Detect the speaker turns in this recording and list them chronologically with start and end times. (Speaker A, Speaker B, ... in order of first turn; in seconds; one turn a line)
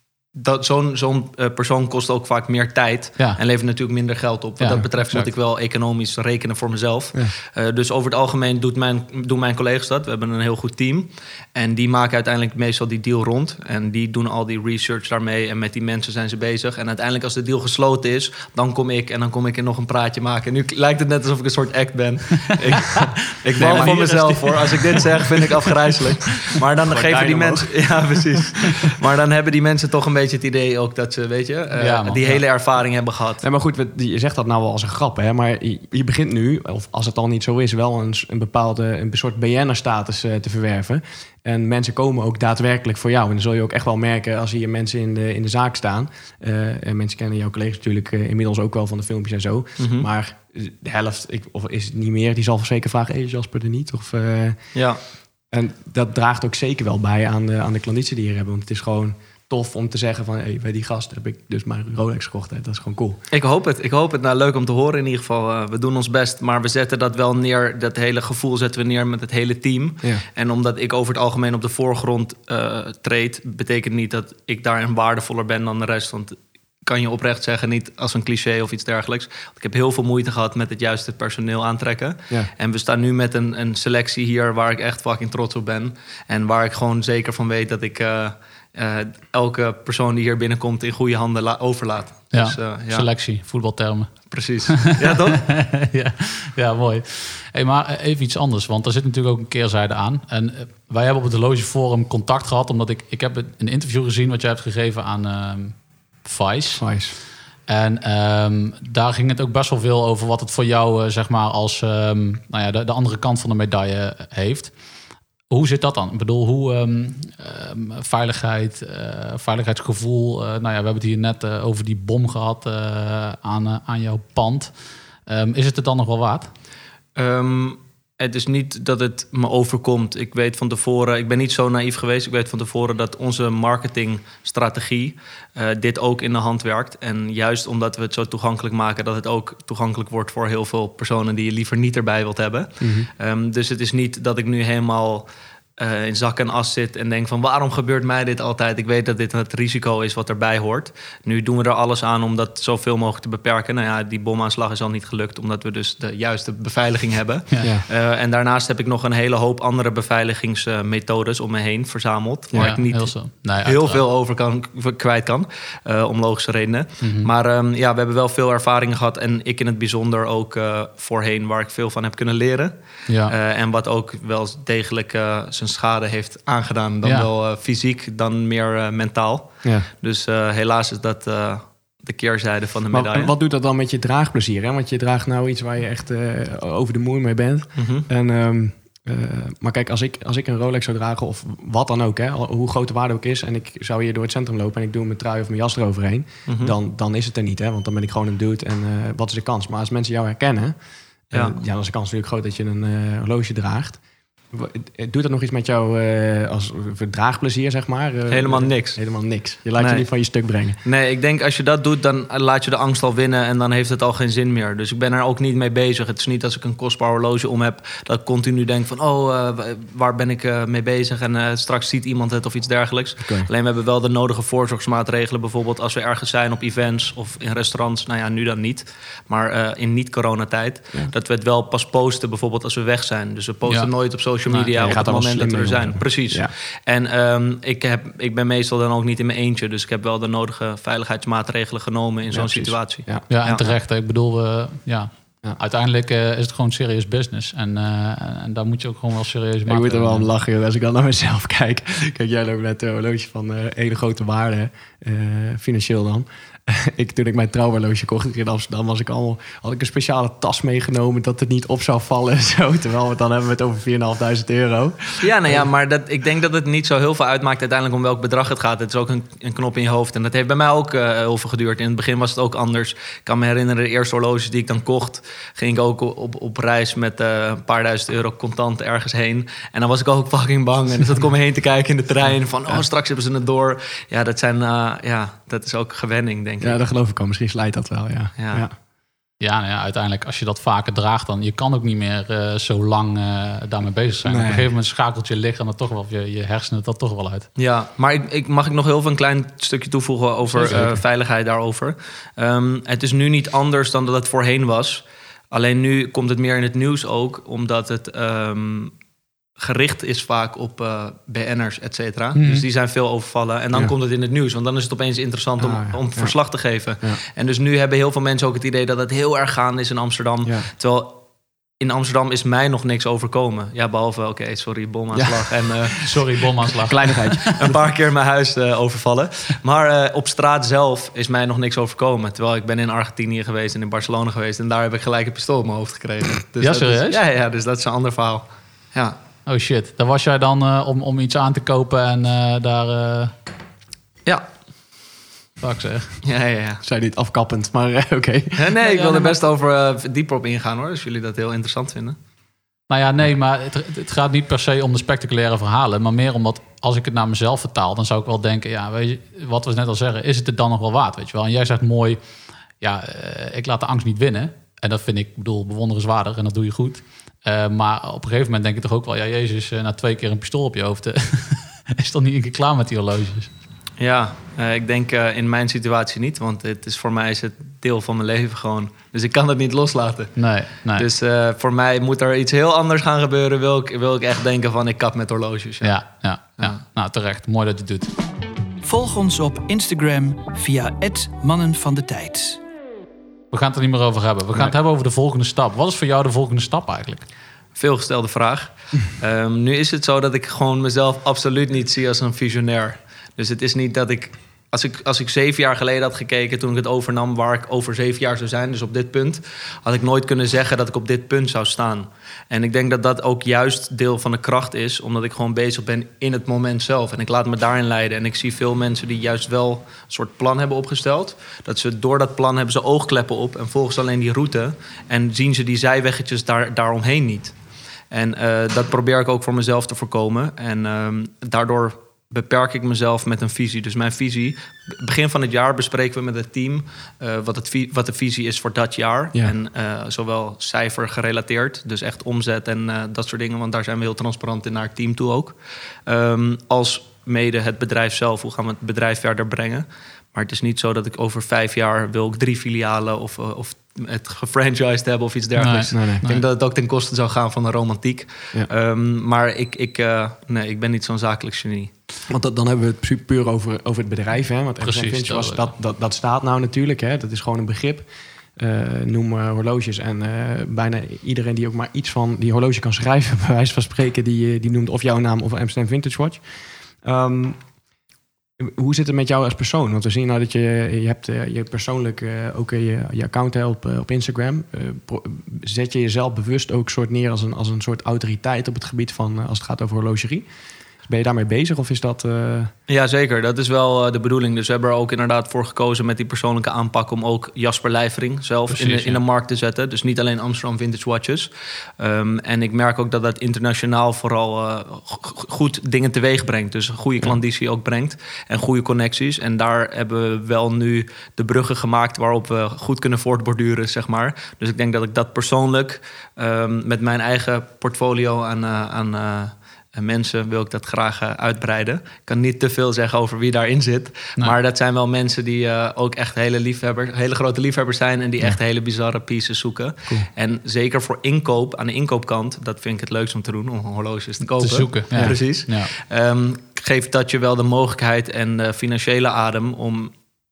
Speaker A: 0.3-33.4
Speaker B: 4.6-5.3
Speaker C: 22.9-24.5
Speaker B: 23.4-25.4
Speaker C: 26.9-28.2
Speaker B: 31.8-32.4
Speaker C: 33.4-54.7
Speaker A: 49.8-50.1
Speaker A: 54.7-55.0
Speaker C: 55.5-63.2
Speaker A: 63.3-93.0
Speaker B: 92.3-107.0
Speaker A: 94.3-95.5
Speaker C: 106.8-107.1
Speaker B: 107.7-114.8
Speaker B: 115.5-126.5
Speaker A: 127.2-145.3
Speaker C: 142.8-143.1
Speaker A: 145.8-183.3
Speaker C: 157.6-157.8
Speaker C: 162.5-162.8
Speaker B: 162.6-164.0
Speaker B: 167.0-167.3
Speaker B: 173.1-173.3
Speaker B: 177.0-177.3
Speaker C: 182.9-200.7
Speaker A: 187.8-188.1
Speaker A: 196.4-196.7
Speaker C: 201.3-210.8
Speaker A: 201.3-201.6
Speaker A: 208.3-209.0
Speaker A: 209.8-210.1
Speaker A: 210.8-243.7
Speaker C: 223.2-223.5
Speaker B: 233.7-235.0
Speaker C: 234.8-236.5
Speaker C: 242.3-243.3
Speaker B: 243.3-250.3
Speaker C: 249.7-265.6
Speaker A: 265.2-286.8
Speaker C: 286.6-288.7
Speaker A: 288.4-288.6
Speaker B: 289.4-297.5
Speaker C: 294.2-294.7
Speaker A: 297.6-308.9
Speaker B: 300.6-300.9
Speaker A: 309.6-321.2
Speaker B: 312.4-312.6
Speaker C: 315.6-317.2
Speaker C: 320.4-320.7
Speaker A: 321.8-326.2
Speaker C: 325.1-325.5
Speaker B: 326.0-327.5
Speaker C: 326.8-327.8
Speaker A: 327.6-339.1
Speaker B: 336.6-337.2
Speaker B: 339.4-343.3
Speaker B: 345.6-346.1
Speaker A: 346.2-346.8
Speaker C: 346.8-349.0
Speaker A: 348.6-352.2
Speaker B: 348.8-349.3
Speaker B: 352.9-362.2
Speaker B: 362.8-373.5
Speaker A: 374.0-386.0
Speaker B: 380.4-381.1
Speaker B: 385.8-388.1
Speaker D: 388.8-392.6
Speaker B: 393.5-397.2
Speaker A: 397.7-427.6
Speaker A: 428.1-461.9
Speaker B: 455.6-456.4
Speaker C: 455.9-456.2
Speaker C: 462.3-476.4
Speaker B: 464.8-465.7
Speaker C: 477.0-477.6
Speaker C: 478.6-490.4
Speaker C: 491.0-492.7
Speaker A: 492.9-540.1
Speaker B: 498.7-499.2
Speaker B: 534.5-535.9